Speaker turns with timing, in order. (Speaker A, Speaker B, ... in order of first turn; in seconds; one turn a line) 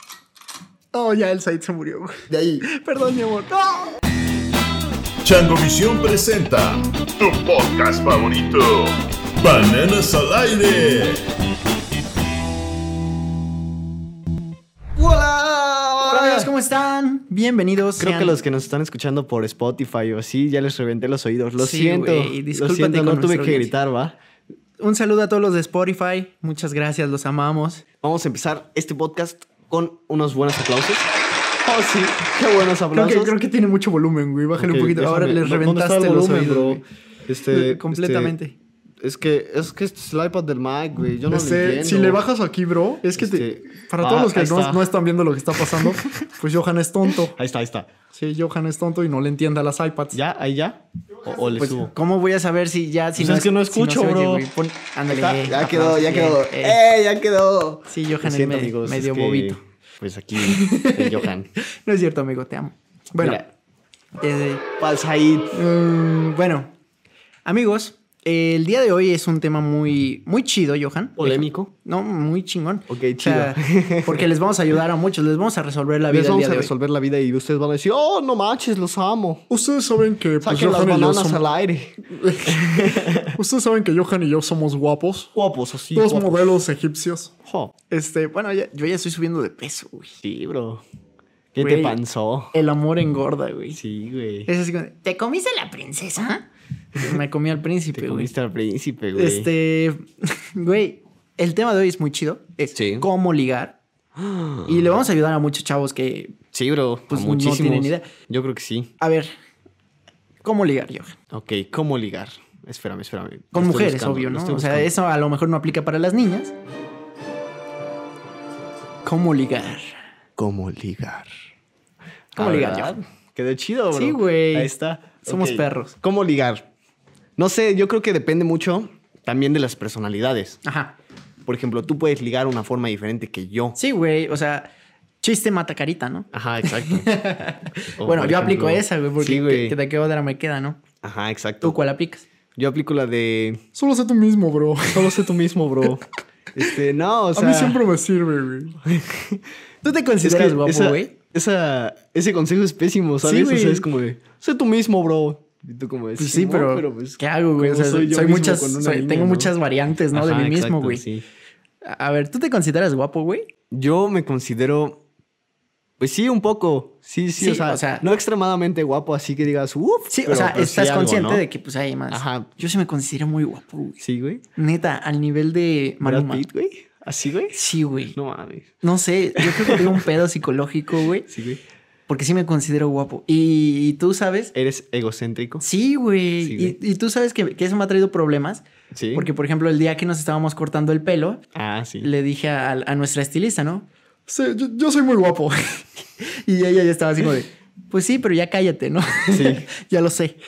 Speaker A: 0.9-4.0
Speaker B: 2.3-2.6
Speaker C: 5.2-11.3
Speaker B: 15.0-16.5
Speaker A: 16.0-18.4
Speaker B: 18.0-24.2
Speaker A: 21.6-23.7
Speaker A: 24.8-27.9
Speaker B: 28.0-31.1
Speaker B: 31.6-33.4
Speaker A: 32.9-36.8
Speaker B: 34.6-38.3
Speaker A: 37.5-38.6
Speaker B: 39.0-42.2
Speaker A: 41.3-47.4
Speaker B: 43.2-44.9
Speaker B: 45.6-46.3
Speaker B: 47.1-47.9
Speaker A: 48.1-50.2
Speaker B: 50.1-51.9
Speaker A: 51.3-56.8
Speaker B: 53.2-54.5
Speaker B: 55.1-61.5
Speaker A: 57.9-59.6
Speaker A: 60.4-61.3
Speaker A: 61.8-63.5
Speaker A: 64.2-64.7
Speaker B: 64.8-65.6
Speaker A: 65.5-66.7
Speaker A: 67.4-76.7
Speaker B: 71.2-71.7
Speaker B: 72.9-74.3
Speaker B: 76.1-79.5
Speaker A: 79.5-81.4
Speaker B: 80.4-83.4
Speaker A: 82.0-85.3
Speaker B: 85.3-86.6
Speaker A: 85.9-87.3
Speaker B: 87.4-87.7
Speaker A: 87.9-90.2
Speaker B: 90.2-90.8
Speaker B: 91.5-92.5
Speaker A: 91.6-92.0
Speaker A: 92.5-93.8
Speaker B: 93.7-94.5
Speaker A: 94.5-96.4
Speaker A: 97.0-98.3
Speaker B: 97.9-99.5
Speaker A: 99.1-103.8
Speaker B: 102.8-103.1
Speaker B: 104.1-105.0
Speaker A: 104.7-106.4
Speaker B: 106.5-108.9
Speaker A: 107.1-108.1
Speaker A: 109.0-109.3
Speaker A: 110.4-111.2
Speaker B: 111.3-114.9
Speaker A: 113.5-116.5
Speaker A: 119.0-120.0
Speaker B: 120.4-121.3
Speaker A: 122.3-122.9
Speaker B: 122.3-126.7
Speaker A: 123.9-125.9
Speaker B: 127.4-130.6
Speaker A: 130.7-130.9
Speaker B: 131.4-133.8
Speaker A: 133.8-134.7
Speaker A: 135.2-140.8
Speaker B: 136.3-137.1
Speaker B: 138.0-139.8
Speaker B: 141.0-141.8
Speaker A: 141.6-142.2
Speaker B: 142.6-143.6
Speaker A: 143.8-145.2
Speaker B: 144.9-147.8
Speaker A: 147.3-148.8
Speaker B: 148.8-149.4
Speaker A: 149.8-151.1
Speaker B: 150.2-159.5
Speaker A: 153.2-153.9
Speaker A: 156.2-161.0
Speaker B: 160.1-161.2
Speaker A: 161.8-163.5
Speaker B: 163.7-165.0
Speaker B: 166.0-171.4
Speaker A: 167.4-168.0
Speaker A: 170.1-174.0
Speaker B: 172.1-172.5
Speaker B: 174.0-174.4
Speaker A: 174.5-176.4
Speaker B: 176.0-177.6
Speaker A: 177.5-178.2
Speaker B: 178.2-178.7
Speaker A: 178.8-181.3
Speaker B: 179.3-180.1
Speaker B: 181.3-181.6
Speaker A: 182.1-184.5
Speaker B: 184.5-185.7
Speaker A: 185.6-191.4
Speaker B: 186.4-186.8
Speaker B: 188.9-189.3
Speaker B: 191.5-192.1
Speaker A: 192.0-200.4
Speaker B: 199.3-199.7